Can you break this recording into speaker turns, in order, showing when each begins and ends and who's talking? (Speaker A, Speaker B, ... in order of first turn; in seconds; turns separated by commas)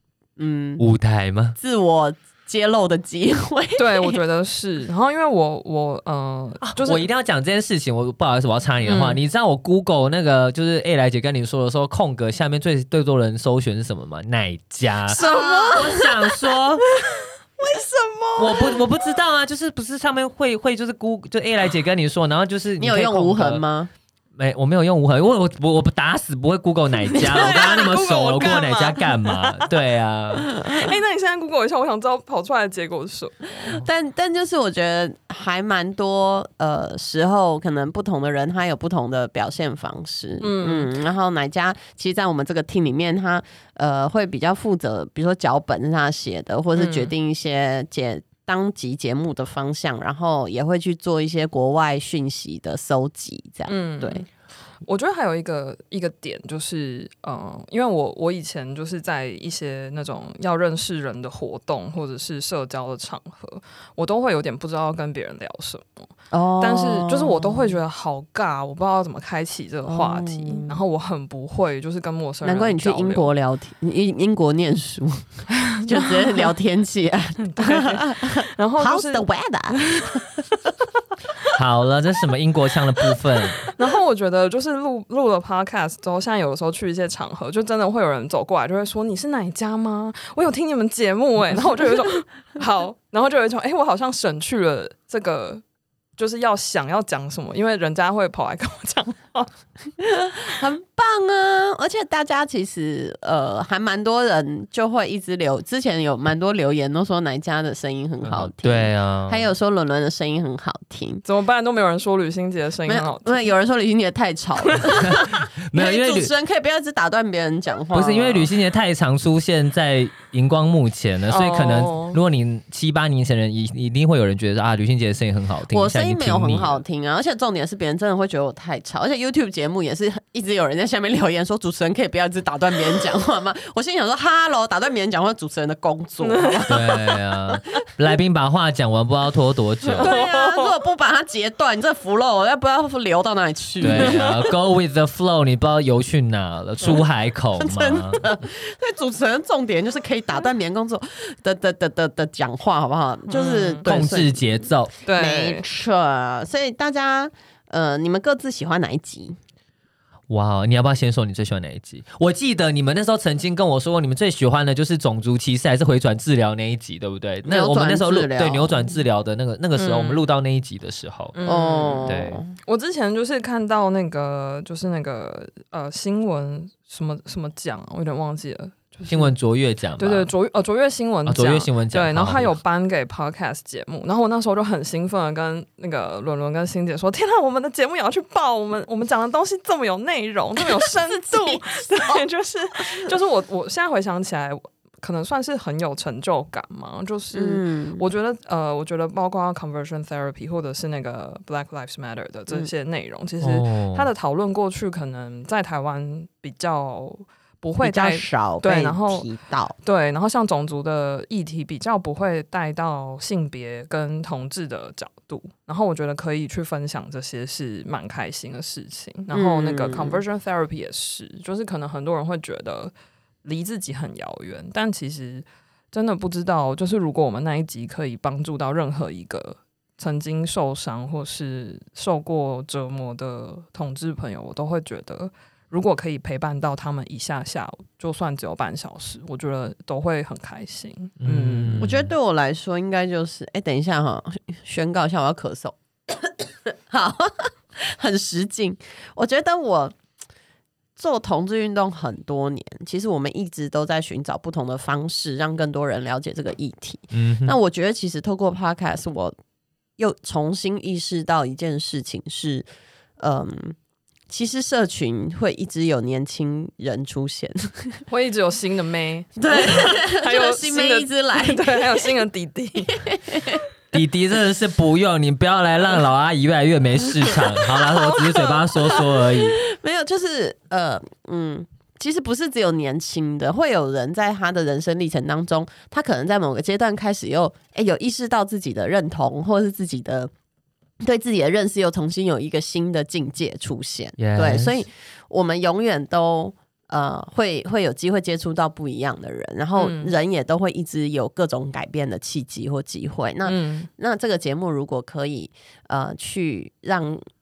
Speaker A: 0.4-0.8, Speaker B: 0.8-1.6, Speaker A: 1.6-4.2, Speaker C: 3.8-7.0, Speaker B: 6.6-16.9, Speaker C: 8.8-9.2, Speaker C: 15.1-18.8, Speaker A: 15.2-15.9, Speaker B: 18.4-23.6, Speaker A: 22.8-23.9, Speaker B: 24.4-30.5, Speaker C: 27.2-29.7, Speaker C: 30.6-33.8, Speaker A: 33.7-54.2, Speaker C: 40.4-40.9, Speaker C: 46.8-47.1, Speaker C: 53.7-54.3, Speaker C: 54.9-73.3, Speaker A: 66.3-67.8, Speaker A: 69.9-70.8, Speaker A: 72.4-80.2, Speaker C: 75.7-76.5, Speaker C: 77.4-80.3, Speaker B: 81.5-83.7, Speaker C: 83.8-95.6, Speaker C: 96.2-99.5, Speaker A: 100.0-111.2, Speaker B: 108.2-109.5, Speaker C: 111.2-113.5, Speaker A: 112.9-118.5, Speaker B: 115.0-116.3, Speaker B: 117.9-126.8, Speaker C: 121.3-122.2, Speaker A: 125.7-137.0, Speaker C: 136.2-137.1, Speaker B: 136.7-140.1, Speaker C: 140.0-140.7, Speaker A: 140.0-144.3, Speaker B: 143.8-148.3, Speaker C: 143.8-144.4, Speaker A: 147.6-159.4, Speaker C: 153.3-153.9, Speaker B: 153.9-154.9, Speaker C: 155.1-155.6, Speaker B: 160.3-171.4, Speaker A: 167.4-168.9, Speaker C: 169.8-170.2, Speaker C: 171.3-179.3, Speaker A: 171.4-172.5, Speaker B: 172.1-172.4, Speaker B: 179.1-180.3, Speaker C: 180.0-209.3, Speaker B: 181.3-182.6, Speaker A: 190.7-192.2, Speaker A: 197.3-198.0, Speaker B: 203.4-204.1, Speaker A: 207.8-209.7, Speaker C: 209.8-222.9, Speaker A: 219.3-220.2, Speaker C: 223.4-241.9, Speaker B: 241.2-242.1, Speaker A: 241.8-249.9, Speaker A: 251.0-259.4, Speaker B: 257.1-257.6, Speaker A: 260.0-262.7, Speaker A: 263.2-263.8, Speaker A: 264.3-268.0, Speaker C: 268.1-273.1, Speaker A: 269.4-272.1, Speaker A: 272.9-273.6, Speaker B: 273.9-279.6, Speaker C: 277.9-279.0, Speaker A: 279.0-290.3, Speaker A: 291.0-307.2, Speaker B: 294.2-294.8, Speaker C: 299.8-300.1, Speaker C: 303.4-303.9